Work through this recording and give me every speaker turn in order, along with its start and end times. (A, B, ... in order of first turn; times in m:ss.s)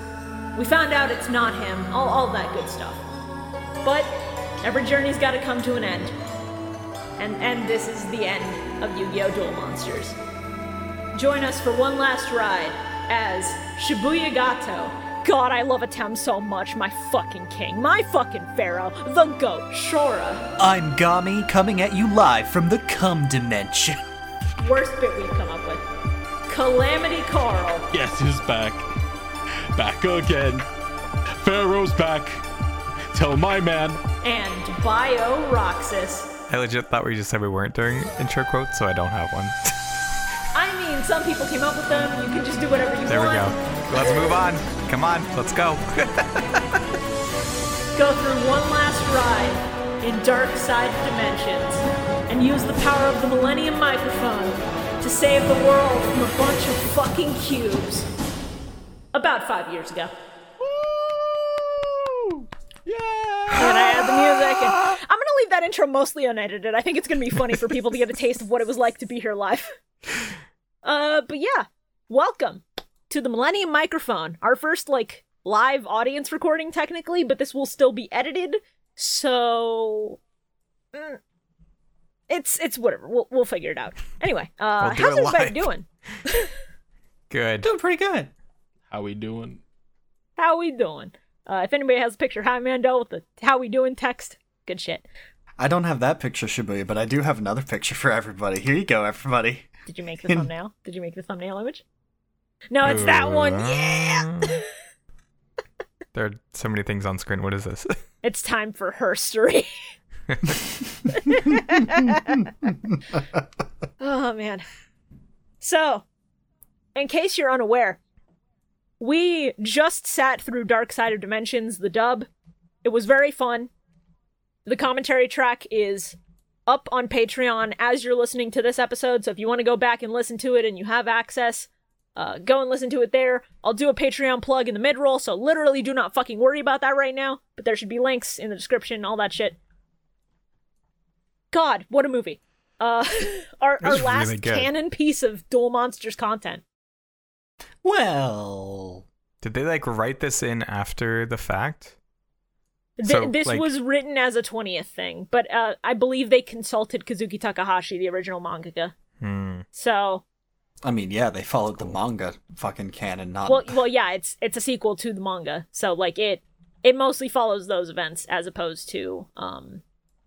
0:00.5-0:03.0 A
0:03.8-0:04.1 A
0:04.6-0:06.1 A
0:07.2-0:10.2 A
0:11.1-0:20.4 A
0:20.6-0:24.0 B
0:24.6-0:25.8 A
0:26.5-0:27.9 A
0:27.9-0:28.8 C
0:29.7-0:30.7 C
0:31.4-0:32.4 C
0:33.1-0:34.0 C
0:34.2-0:36.3 A
0:36.5-0:39.8 D
0:40.5-0:43.5 A
0:43.1-0:46.8 D
0:48.0-0:58.1 A
0:59.1-1:00.1 A
1:00.6-1:04.1 C
1:03.6-1:09.7 A
1:10.8-1:20.2 A
1:20.9-1:21.2 A
1:22.3-1:26.5 A
1:24.8-1:25.7 D
1:27.3-1:27.7 D
1:27.6-1:28.3 B
1:28.9-1:29.6 C
1:30.4-1:35.0 A
1:35.6-1:39.7 B
1:39.9-1:41.8 A
1:42.7-1:44.6 A
1:42.8-1:44.6 D
1:46.1-1:48.0 D
1:48.2-1:49.7 A
1:50.3-1:50.6 D
1:51.3-1:52.4 A
1:54.0-1:54.7 A
1:55.6-1:56.0 A
1:57.0-1:58.0 A
1:59.0-2:02.3 A
2:02.8-2:03.7 A
2:04.7-2:19.6 A
2:21.5-2:26.6 A
2:23.8-2:24.7 D
2:27.8-2:29.0 B
2:29.4-2:32.0 D
2:33.0-2:38.9 A
2:33.0-2:33.7 D
2:39.2-2:39.6 D
2:39.7-2:40.2 A
2:40.8-2:43.8 B
2:43.5-2:49.8 A